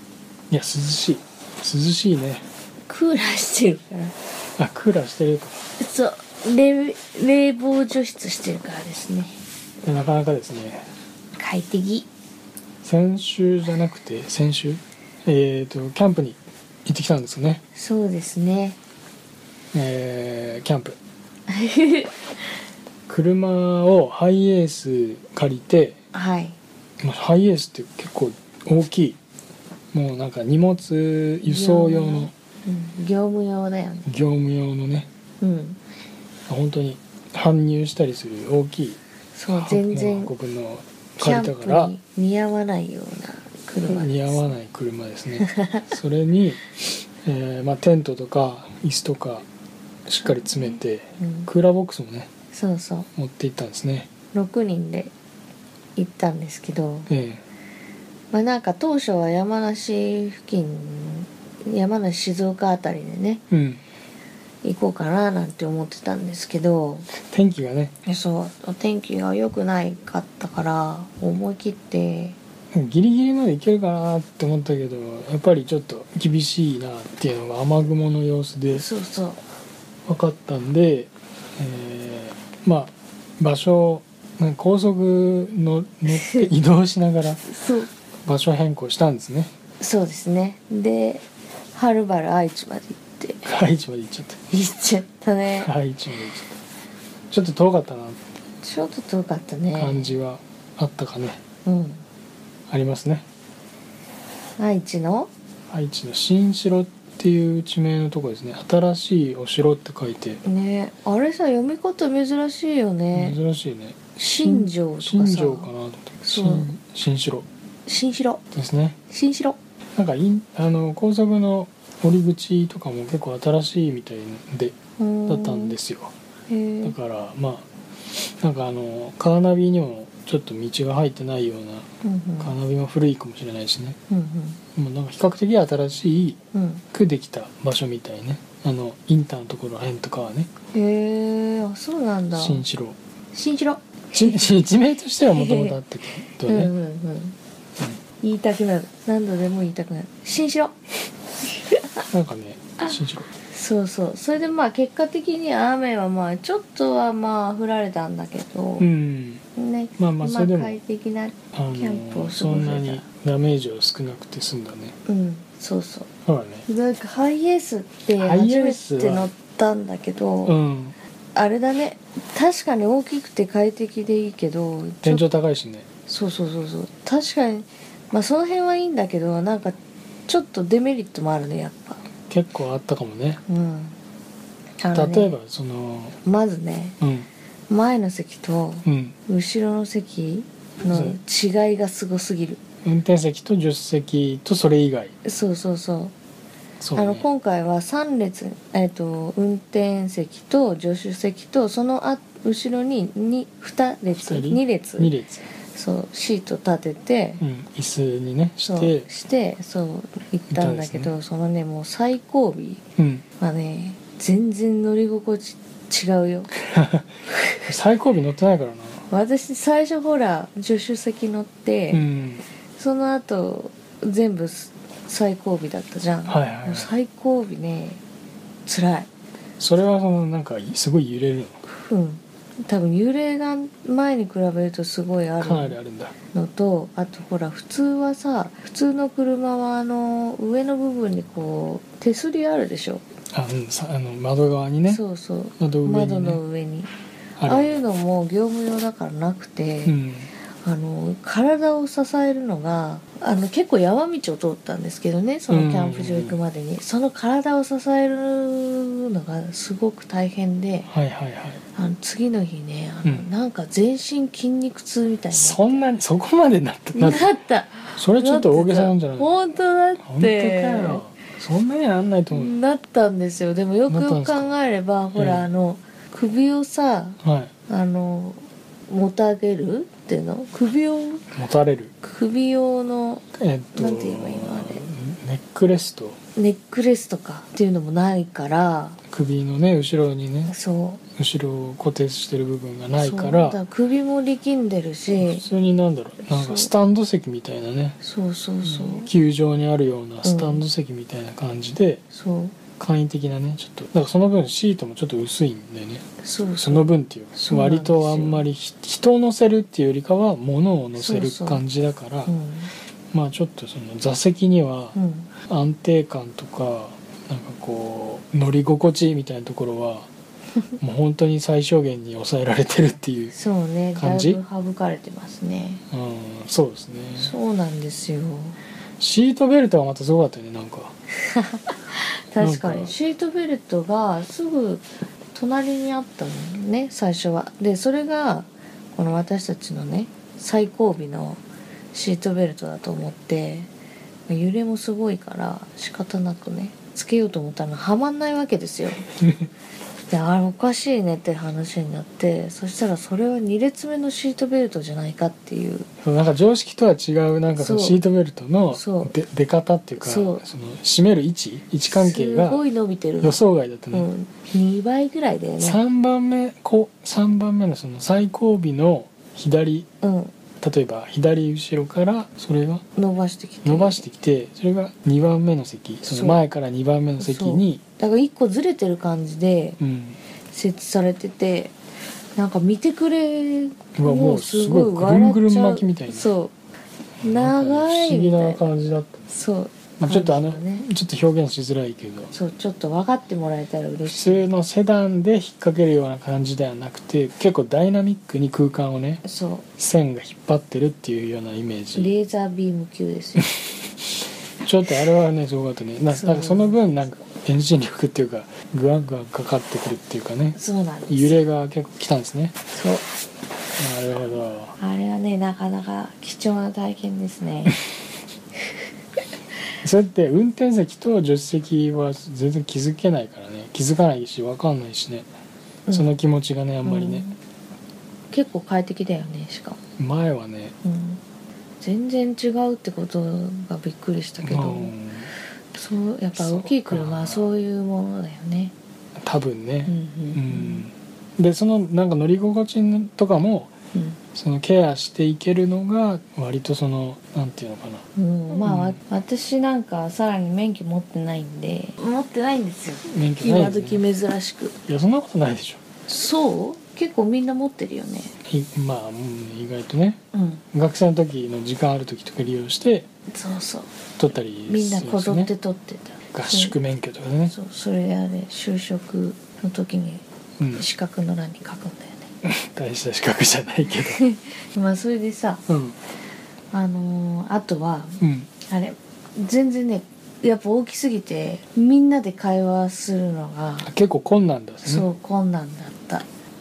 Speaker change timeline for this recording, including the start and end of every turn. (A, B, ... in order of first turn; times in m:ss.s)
0:00.5-0:02.4 A
0:02.9-0:04.1 B
0:04.6-0:05.6 A
0:05.8-0:09.4 B
0:09.8-0:10.9 A
0:11.4-0:12.1 B
0:12.8-0:17.6 A
0:17.7-0:18.8 B
0:19.7-0:21.0 A
0:21.5-0:22.2 B
0:23.1-0:26.0 A
0:26.1-0:26.6 B
0:27.0-0:29.2 A
0:29.9-0:32.3 A
0:31.4-0:34.1 B
0:34.0-0:35.1 A
0:35.4-0:35.8 B
0:36.5-0:39.0 A
0:39.3-0:40.3 B
0:39.5-0:41.9 A
0:41.2-0:44.5 B
0:43.8-0:46.7 A
0:45.4-0:45.8 B
0:47.2-0:49.4 A
0:50.1-0:52.3 A
0:50.2-0:51.5 B
0:52.5-0:53.1 B
0:53.2-0:54.1 A
0:54.3-0:55.1 B
0:56.0-0:57.1 B
0:57.1-0:57.4 A
0:58.3-1:03.4 B
1:03.5-1:03.8 A
1:04.6-1:07.1 B
1:07.1-1:07.9 A
1:08.0-1:12.4 B
1:12.7-1:18.8 A
1:18.7-1:19.4 B
1:20.0-1:27.4 A
1:26.1-1:26.5 B
1:27.4-1:27.9 B
1:28.2-1:29.5 A
1:29.8-1:33.5 B
1:33.4-1:34.4 A
1:34.5-1:35.7 B
1:35.6-1:36.6 A
1:37.3-1:38.2 A
1:38.6-1:40.1 B
1:39.8-1:41.4 A
1:41.6-1:42.0 B
1:42.7-1:43.2 A
1:44.6-1:45.3 B
1:45.7-1:50.4 A
1:50.4-1:53.4 B
1:53.1-1:57.4 A
1:54.2-1:55.7 B
1:56.2-1:56.7 B
1:57.8-1:58.4 B
1:58.5-1:59.0 A
1:59.1-1:59.6 B
1:59.9-2:04.7 A
2:05.0-2:05.8 B
2:05.3-2:06.1 A
2:06.5-2:06.9 B
2:06.8-2:11.9 A
2:12.0-2:12.5 B
2:12.4-2:14.0 A
2:14.1-2:14.6 B
2:14.7-2:16.4 A
2:16.5-2:16.8 B
2:16.9-2:20.5 A
2:20.7-2:22.6 B
2:22.3-2:23.0 A
2:23.3-2:24.4 B
2:24.1-2:26.7 A
2:25.3-2:25.8 B
2:26.4-2:27.4 B
2:28.2-2:30.8 B
2:32.1-2:33.3 A
2:33.5-2:38.9 B
2:38.8-2:39.4 A
2:39.5-2:43.0 B
2:40.0-2:40.8 A
2:41.5-2:45.0 A
2:45.0-2:46.1 B
2:46.2-2:46.6 A
2:46.7-2:50.6 B
2:48.2-2:49.3 A
2:50.4-2:51.0 A
2:51.3-2:55.2 B
2:55.0-2:55.8 A
2:56.1-3:02.0 B
3:02.3-3:03.4 A
3:03.5-3:04.0 B
3:04.8-3:05.3 B
3:04.9-3:06.2 A
3:06.2-3:07.0 B
3:07.0-3:07.3 A
3:07.7-3:12.6 B
3:08.8-3:09.1 A
3:10.9-3:11.2 A
3:12.8-3:15.1 A
3:15.2-3:16.1 B
3:16.8-3:17.2 A
3:17.0-3:25.1 B
3:24.2-3:25.4 A
3:25.7-3:27.4 B
3:27.4-3:29.1 A
3:28.6-3:32.8 B
3:30.5-3:31.1 A
3:33.0-3:33.2 A
3:33.4-3:36.5 B
3:36.7-3:37.0 A
3:37.3-3:37.6 B
3:37.7-3:39.0 A
3:39.1-3:42.1 B
3:41.9-3:42.4 A
3:42.8-3:48.0 B
3:46.2-3:46.9 A
3:48.6-3:49.1 B
3:49.6-3:51.6 A
3:51.6-3:55.8 B
3:55.4-3:56.1 A
3:56.3-4:03.0 B
4:03.3-4:05.0 A
4:04.9-4:06.9 B
4:05.6-4:06.4 A
4:07.4-4:07.8 A
4:07.4-4:10.0 B
4:09.8-4:10.3 A
4:10.6-4:20.9 B
4:15.5-4:16.4 A
4:20.9-4:21.6 A
4:21.7-4:25.8 B
4:25.3-4:27.3 A
4:26.9-4:31.0 B
4:28.0-4:29.3 A
4:30.0-4:32.5 A
4:32.3-4:41.3 B
4:33.9-4:34.5 A
4:35.1-4:35.4 A
4:37.2-4:37.5 A
4:41.3-4:41.9 A
4:42.0-4:43.2 B
4:43.3-4:46.2 A
4:43.7-4:44.8 B
4:46.4-4:49.0 B
4:49.1-4:50.5 A
4:50.5-4:51.0 B
4:51.2-4:53.6 A
4:53.0-4:55.5 B
4:55.1-4:58.0 A
4:56.2-4:56.7 B
4:58.0-4:59.1 B
4:58.6-5:02.0 A
5:00.2-5:00.6 B
5:02.1-5:02.5 B
5:02.8-5:06.0 A
5:06.2-5:08.4 B
5:06.6-5:12.3 A
5:11.0-5:11.6 B
5:12.2-5:12.7 B
5:13.1-5:15.0 A
5:14.9-5:15.3 B
5:15.5-5:20.1 A
5:20.8-5:23.3 A
5:23.3-5:25.8 B
5:24.0-5:24.4 A
5:25.9-5:27.3 A
5:27.2-5:28.6 B
5:29.0-5:30.9 A
5:31.2-5:41.4 B
5:32.4-5:32.9 A
5:41.9-5:43.7 B
5:44.3-5:49.1 B
5:50.1-5:55.9 B
5:56.0-6:02.6 A
5:57.5-5:58.0 B
5:58.7-5:59.1 B
6:00.0-6:00.4 B
6:01.9-6:03.4 B
6:03.2-6:04.1 A
6:03.9-6:05.8 B
6:05.6-6:09.9 A
6:10.0-6:10.3 B
6:10.6-6:12.8 A
6:13.0-6:14.0 B
6:13.6-6:17.8 A
6:16.0-6:16.4 B
6:17.2-6:19.8 B
6:19.8-6:20.2 A
6:20.5-6:21.7 B
6:22.4-6:26.5 B
6:24.0-6:26.3 A
6:27.2-6:28.6 B
6:27.2-6:29.3 A
6:29.3-6:30.8 B
6:30.0-6:32.3 A
6:32.3-6:34.5 B
6:34.0-6:39.2 A
6:39.2-6:39.6 B
6:39.8-6:42.1 A
6:41.9-6:43.5 B
6:44.6-6:50.6 A
6:46.1-6:47.0 B
6:50.5-6:51.4 B
6:51.1-6:52.6 A
6:52.7-6:53.1 B
6:53.8-6:54.8 A
6:54.8-6:57.8 B
6:59.8-7:05.3 A
7:05.9-7:06.1 B
7:05.9-7:07.3 A
7:06.8-7:07.4 B
7:08.3-7:09.8 B
7:10.0-7:10.7 A
7:10.8-7:11.2 B
7:11.8-7:14.9 B
7:14.4-7:15.3 A
7:15.7-7:18.7 B
7:16.3-7:17.4 A
7:19.2-7:23.7 A
7:19.9-7:20.8 B
7:24.3-7:28.0 A
7:28.2-7:34.8 B
7:28.6-7:29.0 A
7:33.1-7:34.0 A
7:34.8-7:35.8 A
7:36.0-7:38.3 B
7:38.4-7:40.2 A
7:40.3-7:40.6 B
7:40.7-7:43.1 A
7:43.3-7:43.9 B
7:44.2-7:45.5 A
7:44.7-7:46.8 B
7:46.3-7:47.5 A
7:47.5-7:52.3 B
7:50.6-7:50.8 A
7:52.4-7:54.2 A
7:54.1-7:55.6 B
7:55.7-7:56.0 A
7:56.7-8:03.9 B
7:58.2-7:58.5 A
8:03.8-8:05.1 A
8:04.8-8:06.2 B